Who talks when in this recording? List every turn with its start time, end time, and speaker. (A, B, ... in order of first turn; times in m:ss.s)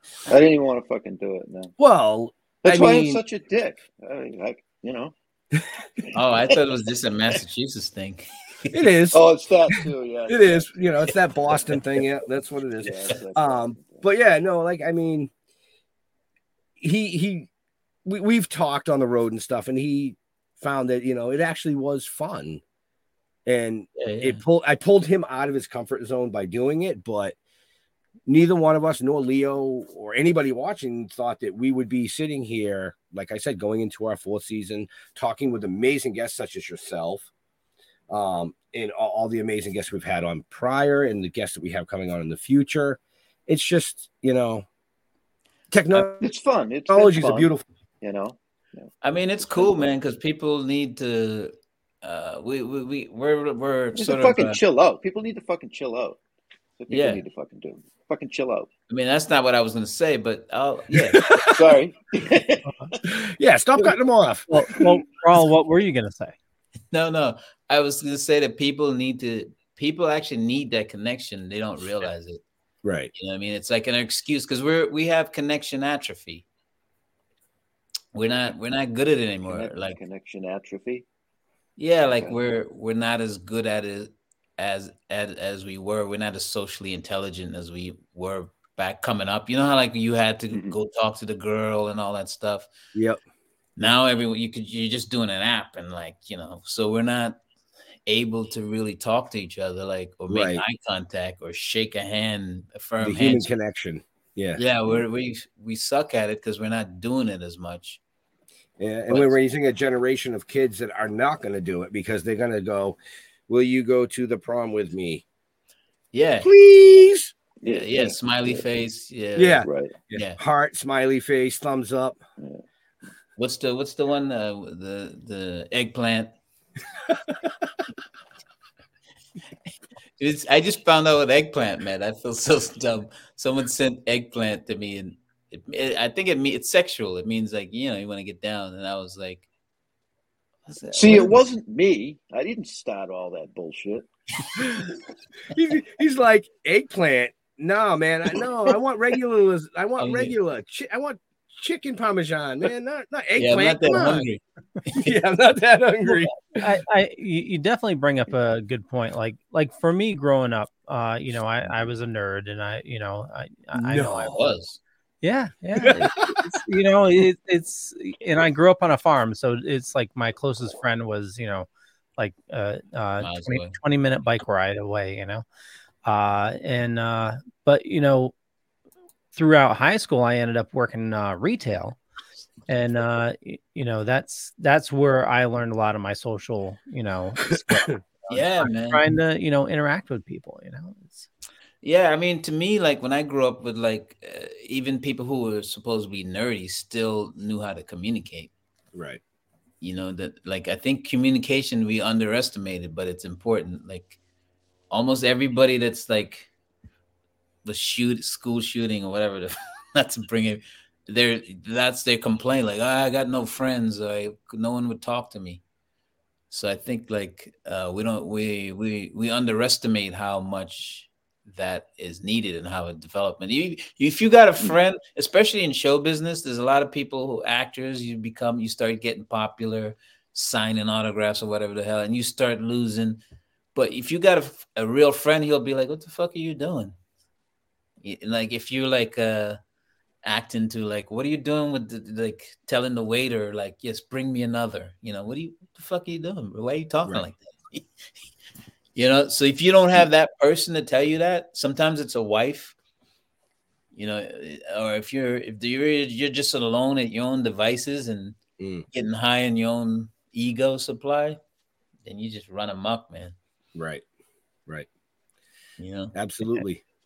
0:00.3-0:01.7 A
0:01.8-0:03.2 B
0:02.6-0:05.1 A
0:06.1-0:08.8 C
0:06.2-0:06.5 A
0:08.7-0:09.2 B
0:09.1-0:10.7 A
0:10.3-0:15.3 B
0:12.8-0:14.0 A
0:16.8-0:17.5 B
0:18.0-0:22.6 B
0:23.4-0:27.4 B
0:24.0-0:24.4 C
0:28.3-0:37.3 B
0:38.1-0:44.6 B
0:45.7-0:46.2 B
0:46.2-0:48.9 A
0:46.9-0:47.6 B
0:49.0-0:54.6 C
0:49.4-0:49.9 A
0:54.0-0:56.2 A
0:56.8-0:58.7 A
0:56.9-0:57.2 C
0:58.9-1:01.2 C
1:01.1-1:01.7 B
1:01.5-1:02.6 A
1:03.0-1:04.8 B
1:04.5-1:06.4 D
1:06.9-1:12.4 C
1:12.8-1:13.1 B
1:13.1-1:16.4 C
1:18.1-1:20.0 C
1:19.5-1:21.0 A
1:21.8-1:32.7 C
1:32.9-1:33.2 B
1:33.8-1:37.4 C
1:38.0-1:43.5 C
1:40.3-1:40.6 B
1:43.0-1:44.6 B
1:44.6-1:48.0 C
1:48.8-1:55.2 B
1:49.1-1:49.3 C
1:56.1-1:56.5 C
1:56.4-1:57.3 B
1:57.6-1:58.6 A
1:57.7-2:00.4 C
1:59.3-2:02.2 B
1:59.6-2:00.0 A
2:03.4-2:06.3 C
2:10.2-2:19.5 C
2:20.7-2:21.4 C
2:20.9-2:24.1 A
2:24.6-2:24.9 B
2:25.5-2:34.3 B
2:30.0-2:30.3 C
2:33.4-2:34.4 C
2:34.9-2:36.8 B
2:36.5-2:44.4 D
2:43.7-2:44.4 B
2:44.3-2:44.8 C
2:45.2-2:55.4 D
2:45.8-2:46.4 B
2:53.2-2:53.7 C
2:56.0-2:58.3 D
2:59.3-3:02.0 D
3:02.7-3:11.3 D
3:08.3-3:09.0 C
3:11.8-3:18.5 C
3:18.9-3:19.2 B
3:19.8-3:24.2 C
3:24.9-3:26.5 C
3:27.6-3:35.6 C
3:36.5-3:53.2 C
3:53.7-3:56.9 C
3:58.0-3:59.6 C
4:00.2-4:07.8 C
4:09.0-4:12.7 C
4:13.9-4:18.4 C
4:18.6-4:18.8 B
4:18.9-4:21.4 C
4:22.0-4:23.3 C
4:23.7-4:24.0 B
4:25.8-4:26.1 C
4:26.1-4:26.8 B